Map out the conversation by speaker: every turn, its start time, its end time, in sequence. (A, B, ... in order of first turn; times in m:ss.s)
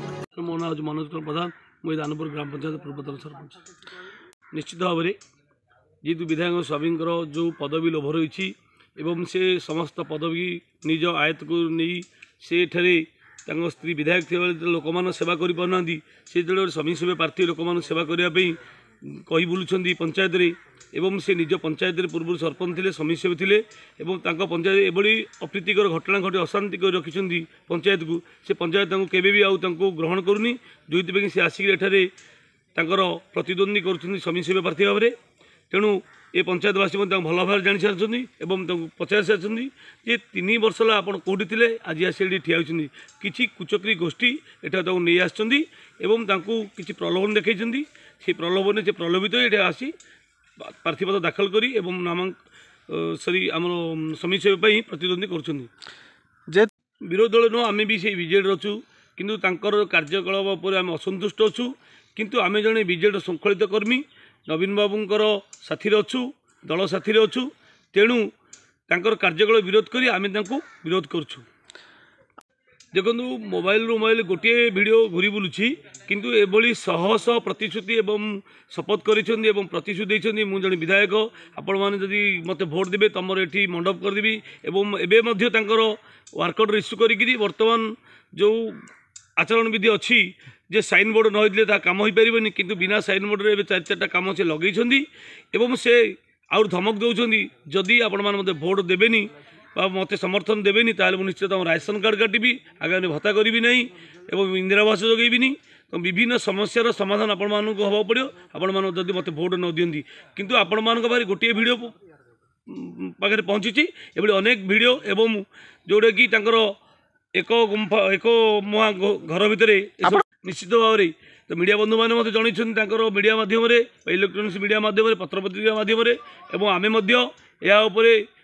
0:00.3-0:03.6 A
0:04.5-0:05.2 A
0:06.0-0:32.1 A
0:32.8-0:35.1 A
0:35.7-0:49.9 A
0:50.6-0:52.3 A
0:52.9-0:55.7 A
0:57.0-1:08.3 A
1:08.9-1:11.4 A
1:12.9-1:28.9 A
1:29.4-1:51.9 A
1:52.7-1:56.7 A
1:57.4-2:08.2 A